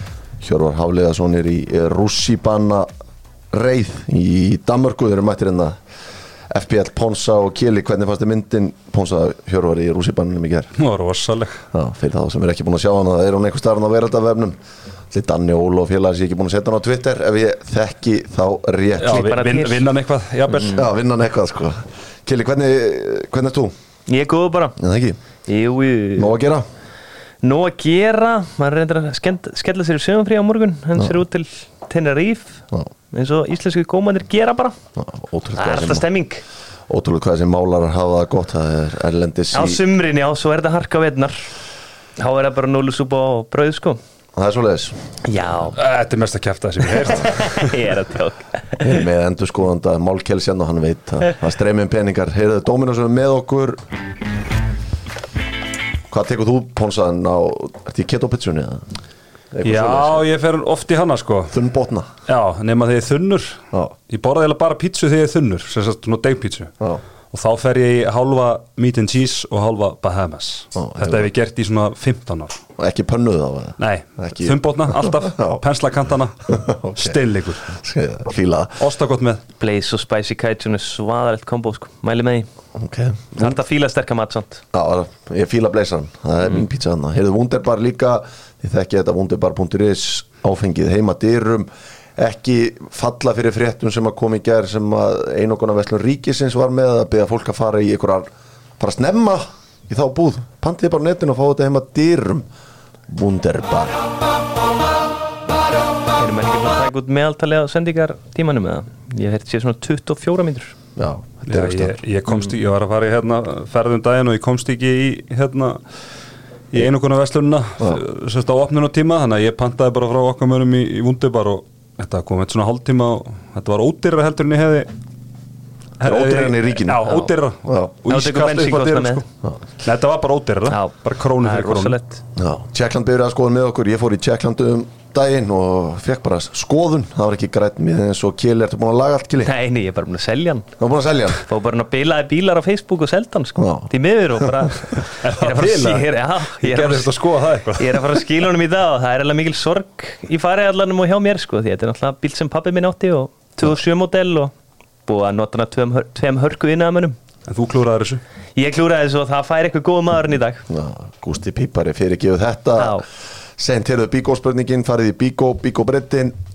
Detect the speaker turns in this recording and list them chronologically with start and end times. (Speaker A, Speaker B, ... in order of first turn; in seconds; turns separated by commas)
Speaker A: 0.4-2.9, Speaker A: 3.5-5.8, Speaker A: 6.5-10.7, Speaker B: 10.8-11.6, Speaker A: 11.7-14.6, Speaker A: 15.1-19.4, Speaker B: 19.0-20.9, Speaker C: 19.0-19.9, Speaker C: 20.5-20.8, Speaker A: 20.7-23.7, Speaker C: 24.1-24.8, Speaker A: 24.8-25.2, Speaker C: 25.4-26.4, Speaker A: 26.2-26.6, Speaker C: 27.4-34.8, Speaker A: 35.0-36.1, Speaker C: 35.6-36.4, Speaker A: 36.9-39.8, Speaker C: 39.5-41.5, Speaker C: 42.2-44.0, Speaker A: 44.4-45.2, Speaker C: 45.2-45.8, Speaker B: 45.8-47.9, Speaker C: 46.9-49.0, Speaker A: 48.8-53.8, Speaker A: 56.1-58.9, Speaker A: 59.5-60.2, Speaker B: 59.6-61.5, Speaker A: 61.5-62.1, Speaker B: 62.3-66.7, Speaker B: 67.3-72.6, Speaker A: 70.8-71.3, Speaker A: 72.8-75.6, Speaker B: 73.8-77.7, Speaker A: 76.5-78.8, Speaker B: 78.8-79.4, Speaker C: 79.6-82.5, Speaker A: 82.8-83.4, Speaker C: 83.4-84.6, Speaker A: 84.7-98.3, Speaker A: 98.8-102.5, Speaker A: 103.1-104.0, Speaker C: 106.2-110.8, Speaker A: 111.0-112.0, Speaker B: 111.5-115.8, Speaker B: 116.7-124.9, Speaker B: 126.0-129.3, Speaker A: 126.0-127.1, Speaker C: 127.1-127.3, Speaker A: 127.7-127.9, Speaker C: 128.1-129.2, Speaker B: 129.8-132.0, Speaker C: 130.7-132.2, Speaker A: 132.4-139.5, Speaker C: 139.4-140.7, Speaker A: 140.8-141.4, Speaker C: 141.3-154.5, Speaker A: 143.6-144.7, Speaker B: 145.2-148.3, Speaker C: 155.1-157.2, Speaker B: 157.5-158.2, Speaker C: 158.6-160.7, Speaker A: 160.7-166.3, Speaker C: 162.8-163.0